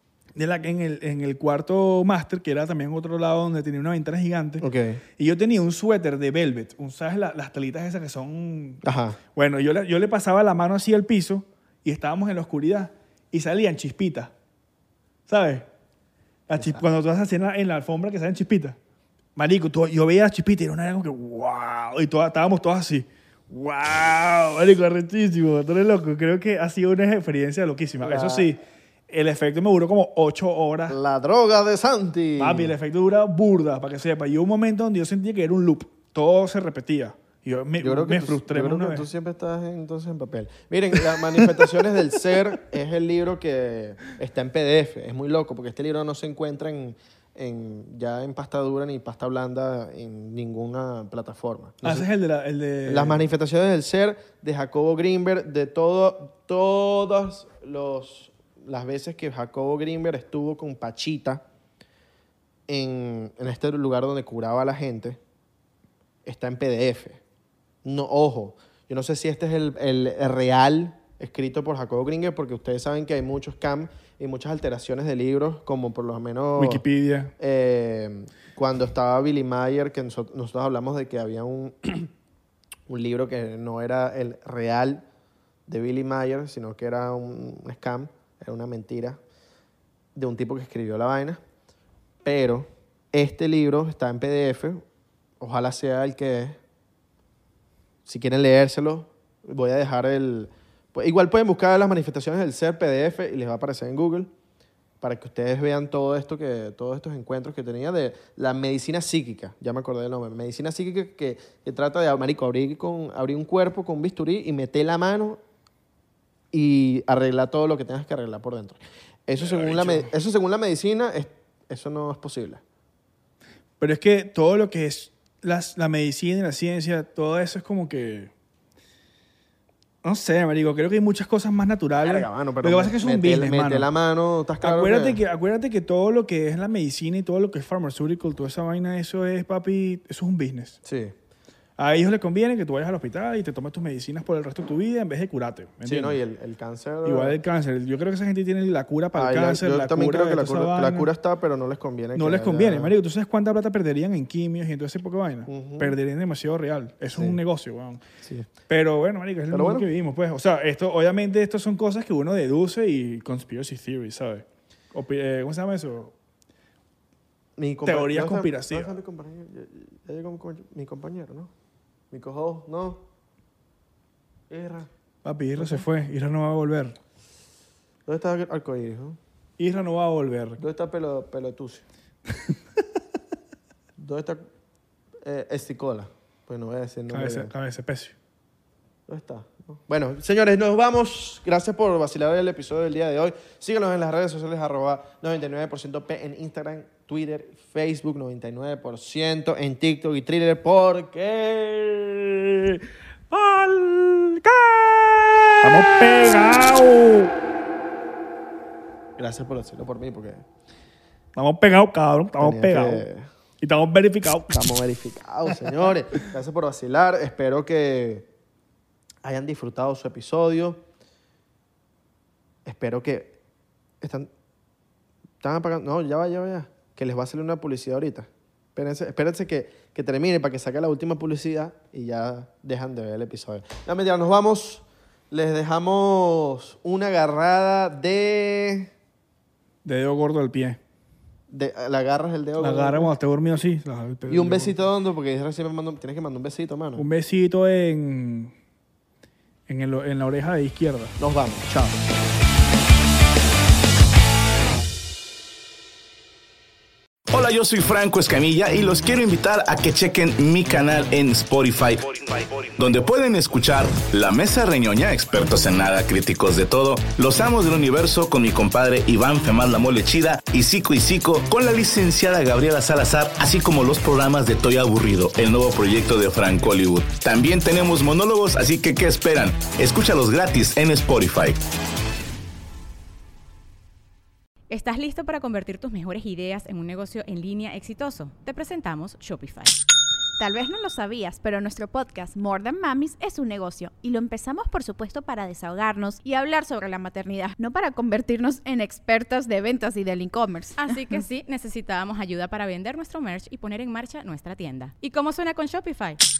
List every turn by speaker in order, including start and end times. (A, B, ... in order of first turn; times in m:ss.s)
0:00.3-0:04.7 A
0:04.6-0:05.0 B
0:05.2-0:08.8 A
0:08.8-0:09.2 B
0:09.3-0:14.3 A
0:15.3-0:15.7 A
0:16.5-0:18.8 A
0:16.5-0:16.8 B
0:19.4-0:31.0 A
0:28.0-0:28.5 B
0:30.9-0:32.7 B
0:32.4-0:39.1 A
0:37.8-0:52.1 B
0:51.8-0:53.2 A
0:52.8-1:01.4 B
1:02.7-1:05.2 B
1:06.2-1:07.2 B
1:07.8-1:16.8 B
1:16.6-1:17.3 A
1:17.4-1:22.1 B
1:22.9-1:25.0 B
1:25.7-1:29.2 B
1:30.1-1:31.4 B
1:32.2-1:34.8 B
1:35.4-1:36.6 B
1:38.0-1:44.3 B
1:45.0-1:55.4 B
1:56.5-2:02.6 B
1:59.4-2:00.1 A
2:03.8-2:08.3 A
2:10.0-2:13.9 A
2:12.0-2:15.2 B
2:14.6-2:20.8 A
2:20.8-2:21.1 B
2:21.8-2:26.2 A
2:25.8-2:27.4 B
2:27.0-2:31.1 A
2:29.1-2:32.9 B
2:32.1-2:38.0 A
2:35.5-2:36.0 B
2:37.1-2:37.4 B
2:38.2-2:38.5 B
2:38.7-2:46.1 A
2:39.5-2:39.9 B
2:47.6-2:51.5 B
2:47.8-2:48.9 A
2:52.1-2:53.0 B
2:54.5-2:54.9 B
2:55.2-2:57.0 A
2:55.6-2:55.8 B
2:58.0-2:59.2 B
2:59.6-3:00.6 A
3:00.6-3:01.8 B
3:04.0-3:04.4 B
3:05.2-3:07.5 B
3:07.1-3:08.1 A
3:09.1-3:22.8 B
3:23.3-3:25.3 B
3:25.6-3:27.3 A
3:29.2-3:30.4 B
3:31.4-3:33.1 A
3:32.4-3:33.3 B
3:33.6-3:34.6 A
3:34.5-3:38.3 B
3:39.2-3:40.8 B
3:42.6-3:43.4 B
3:44.0-3:44.3 B
3:45.4-3:58.9 B
3:59.8-4:00.8 A
4:01.5-4:03.1 B
4:02.6-4:04.8 A
4:04.3-4:07.0 B
4:07.0-4:08.5 A
4:09.7-4:11.2 A
4:11.2-4:12.0 B
4:17.3-4:41.6 C
4:44.7-4:49.8 D
4:50.4-5:01.2 E
5:00.8-5:06.2 D